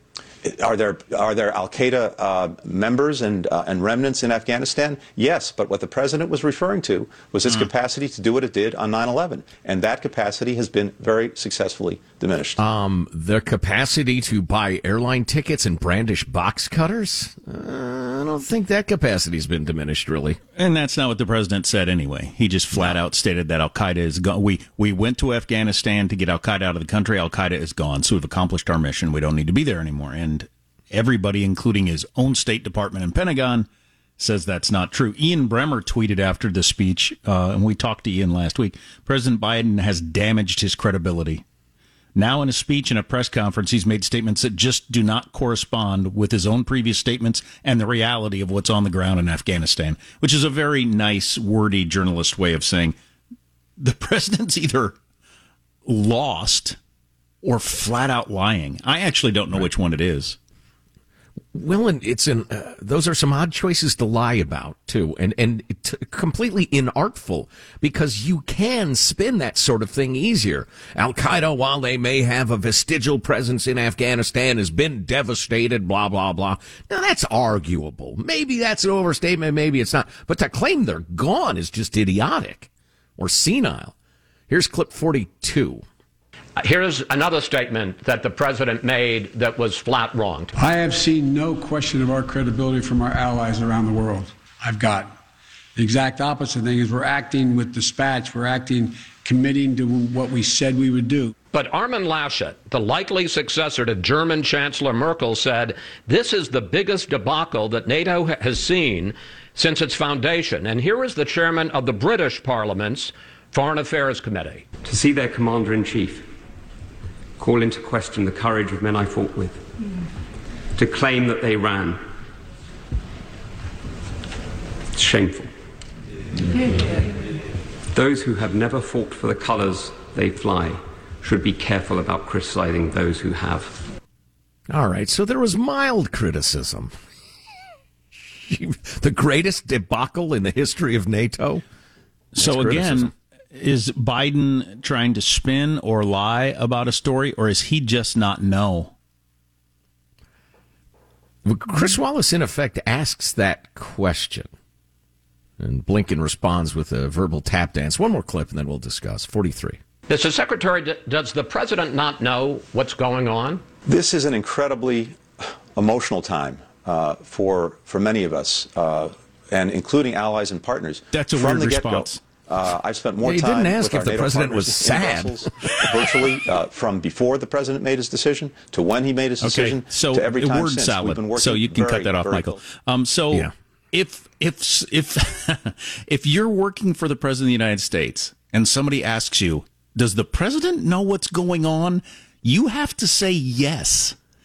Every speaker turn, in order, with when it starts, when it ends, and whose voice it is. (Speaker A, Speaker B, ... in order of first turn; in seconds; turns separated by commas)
Speaker A: 0.4-12.6, Speaker B: 12.6-20.4, Speaker C: 20.6-33.7, Speaker C: 34.2-41.4, Speaker C: 42.2-53.0, Speaker C: 53.8-55.0, Speaker C: 55.9-56.8, Speaker C: 57.4-60.4, Speaker B: 61.5-83.9, Speaker B: 84.5-85.8, Speaker D: 86.6-90.5, Speaker E: 90.6-95.2, Speaker E: 95.8-101.3, Speaker D: 101.5-114.7, Speaker F: 114.8-116.3, Speaker F: 117.4-119.6, Speaker F: 120.8-122.0, Speaker F: 124.9-125.5, Speaker F: 126.5-126.8, Speaker F: 127.9-133.8, Speaker B: 134.7-136.9, Speaker B: 138.2-141.6, Speaker C: 142.3-148.9, Speaker B: 142.4-143.1, Speaker B: 151.4-154.5, Speaker B: 155.6-159.8, Speaker D: 160.1-163.6, Speaker A: 163.8-182.6, Speaker C: 171.1-172.2, Speaker B: 173.2-176.3, Speaker C: 179.4-194.2